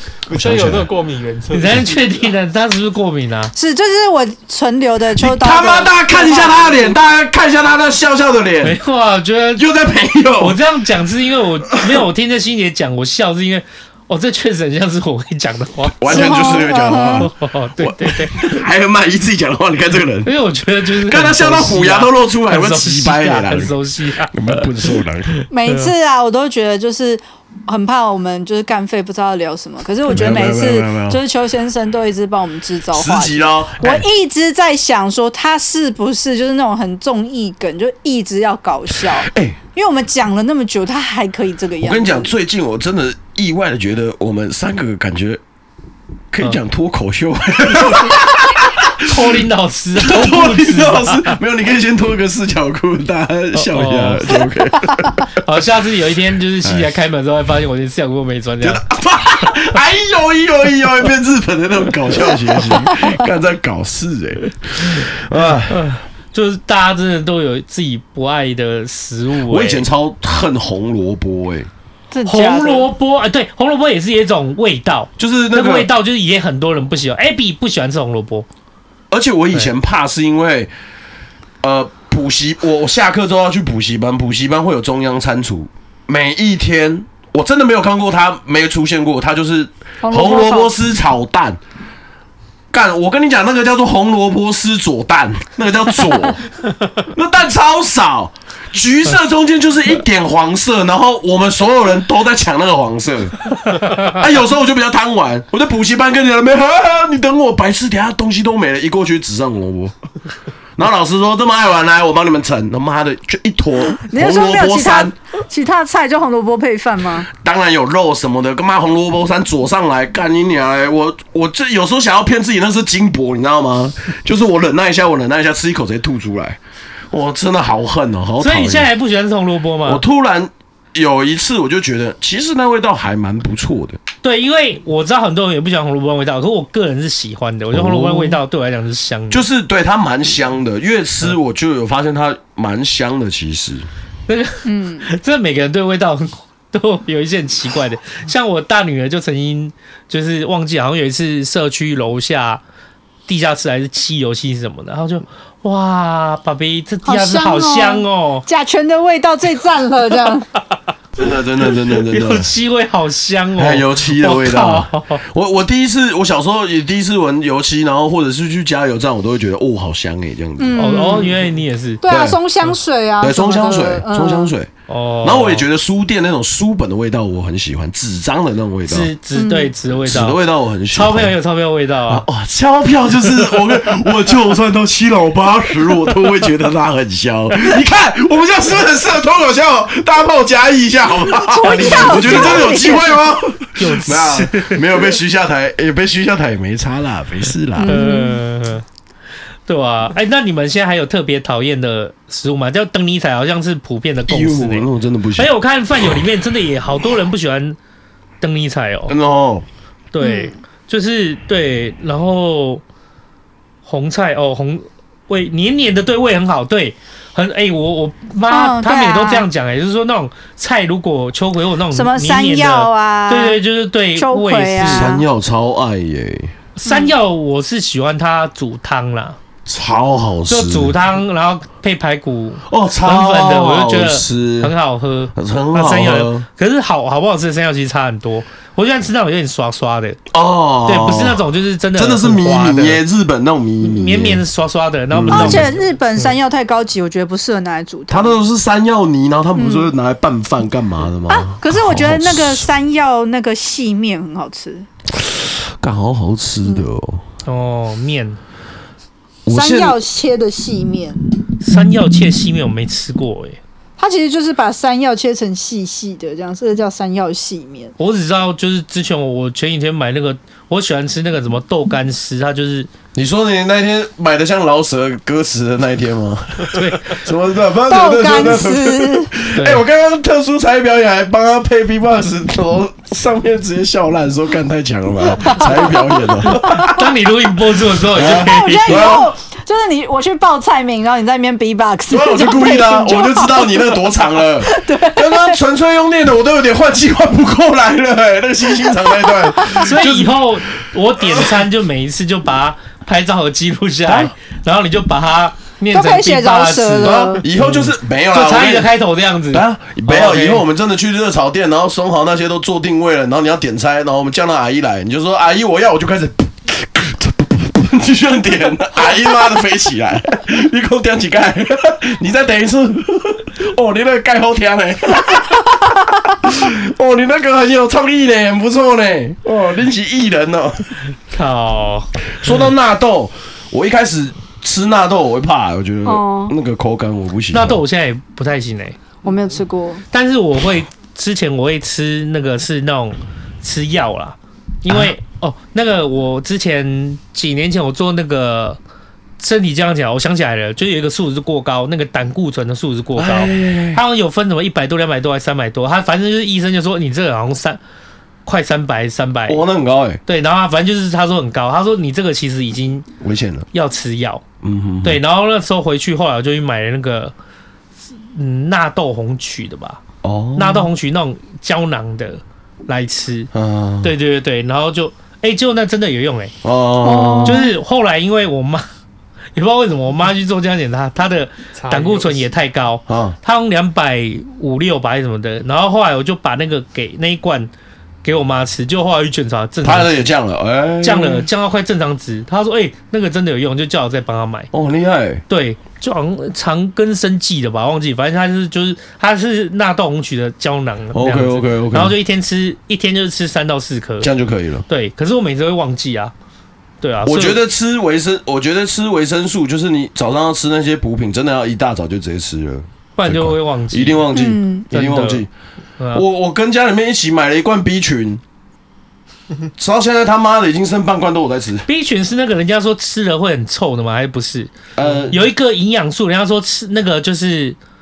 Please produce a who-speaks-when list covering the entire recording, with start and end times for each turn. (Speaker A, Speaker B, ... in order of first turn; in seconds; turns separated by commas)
Speaker A: 0.2-2.3, Speaker B: 0.3-0.9, Speaker C: 1.5-3.5, Speaker D: 3.5-6.8, Speaker B: 5.1-8.8, Speaker C: 8.6-9.6, Speaker B: 9.6-10.6, Speaker C: 10.4-18.5, Speaker B: 15.9-20.3, Speaker D: 16.1-17.3, Speaker C: 20.2-25.9, Speaker B: 21.0-23.7, Speaker B: 24.3-25.3, Speaker D: 25.5-42.3, Speaker B: 30.1-31.2, Speaker B: 32.9-34.0, Speaker B: 39.1-39.6, Speaker B: 41.8-45.4, Speaker B: 46.3-49.3, Speaker C: 49.0-51.4, Speaker B: 50.0-55.4, Speaker C: 53.5-54.4, Speaker C: 55.4-58.8, Speaker B: 58.6-65.8, Speaker C: 65.7-69.8, Speaker B: 69.5-71.7, Speaker D: 72.1-72.9, Speaker C: 72.2-78.5, Speaker B: 75.2-75.9, Speaker B: 79.1-80.7, Speaker B: 81.6-91.6, Speaker D: 90.0-90.7, Speaker B: 92.7-96.4, Speaker B: 97.1-109.9, Speaker B: 110.8-115.1, Speaker D: 114.1-117.3, Speaker B: 117.3-126.6, Speaker B: 127.1-128.9, Speaker C: 128.4-130.0, Speaker B: 129.8-134.0, Speaker C: 134.2-139.4, Speaker B: 137.7-138.4, Speaker B: 139.3-143.9, Speaker C: 144.3-152.6, Speaker D: 144.7-145.1, Speaker C: 153.3-158.4, Speaker D: 157.0-160.5, Speaker B: 161.2-162.5, Speaker C: 161.9-165.2, Speaker B: 163.6-171.1, Speaker D: 170.6-171.4, Speaker C: 170.8-172.0, Speaker D: 172.0-174.5, Speaker B: 172.1-172.4, Speaker B: 173.2-174.7, Speaker C: 174.9-175.6, Speaker B: 175.2-179.1, Speaker C: 178.9-180.4, Speaker D: 179.3-179.7, Speaker B: 180.0-181.3, Speaker C: 180.9-182.2, Speaker B: 182.1-198.0, Speaker D: 191.3-193.2, Speaker C: 191.7-192.7, Speaker C: 193.8-194.8, Speaker D: 197.8-198.4, Speaker C: 197.8-198.8, Speaker C: 199.7-207.8, Speaker B: 204.3-205.5, Speaker C: 208.4-209.1, Speaker B: 209.1-209.6, Speaker C: 210.1-212.8, Speaker D: 210.2-210.5, Speaker C: 213.8-225.1, Speaker D: 218.5-219.4, Speaker D: 221.9-223.6, Speaker D: 224.2-225.2, Speaker B: 224.8-226.5, Speaker C: 226.8-229.4, Speaker D: 226.8-227.1, Speaker B: 229.7-230.9, Speaker C: 230.5-240.2, Speaker B: 232.7-234.7, Speaker B: 235.3-236.4, Speaker B: 240.3-241.4, Speaker C: 240.8-243.0, Speaker B: 241.9-244.4, Speaker C: 243.8-246.3, Speaker B: 245.1-245.7, Speaker D: 245.3-248.4, Speaker B: 248.1-252.7, Speaker D: 249.5-249.9, Speaker D: 251.3-254.9, Speaker B: 255.1-257.2, Speaker C: 257.4-258.4, Speaker B: 259.4-260.0, Speaker D: 259.5-261.2, Speaker C: 261.6-263.6, Speaker D: 264.0-267.9, Speaker C: 268.0-272.9, Speaker B: 273.1-287.1, Speaker C: 276.7-277.2, Speaker D: 277.9-279.3, Speaker C: 279.5-279.8, Speaker D: 285.5-285.8, Speaker C: 286.5-289.2, Speaker B: 288.0-289.3, Speaker D: 288.2-294.0, Speaker B: 292.1-300.5, Speaker D: 294.6-295.6, Speaker D: 299.2-299.8, Speaker C: 299.8-310.6, Speaker B: 301.2-301.6, Speaker B: 304.1-304.3, Speaker D: 305.9-307.4, Speaker B: 307.0-308.9, Speaker B: 309.5-330.9, Speaker C: 331.3-332.7, Speaker B: 332.4-337.8, Speaker D: 336.0-336.5, Speaker C: 337.5-339.0, Speaker D: 339.2-340.0, Speaker C: 340.1-348.8, Speaker C: 349.4-357.8, Speaker B: 353.1-354.0, Speaker C: 358.4-359.6, Speaker B: 359.5-360.2, Speaker C: 360.2-363.1, Speaker B: 363.2-363.7, Speaker C: 363.7-364.4, Speaker B: 364.6-365.2, Speaker C: 365.0-367.3, Speaker C: 368.3-370.0, Speaker B: 370.2-370.9, Speaker C: 370.6-373.5, Speaker B: 373.5-374.1, Speaker C: 374.0-376.5, Speaker B: 376.6-377.6, Speaker D: 377.0-377.7, Speaker C: 377.4-378.9, Speaker C: 379.5-387.7, Speaker A: 381.7-382.5, Speaker B: 383.1-383.4, Speaker C: 388.2-390.2, Speaker B: 389.8-391.5, Speaker C: 391.0-394.7, Speaker B: 394.7-395.4, Speaker C: 395.5-404.3, Speaker B: 401.1-402.1, Speaker B: 404.2-404.8, Speaker C: 404.9-406.3, Speaker C: 407.0-407.6, Speaker B: 407.2-415.5, Speaker C: 413.1-414.2, Speaker D: 414.3-414.8, Speaker C: 414.9-415.4, Speaker C: 416.0-416.2, Speaker B: 416.1-418.4, Speaker B: 419.8-421.9, Speaker C: 421.9-424.7, Speaker B: 424.9-425.4, Speaker C: 425.3-427.8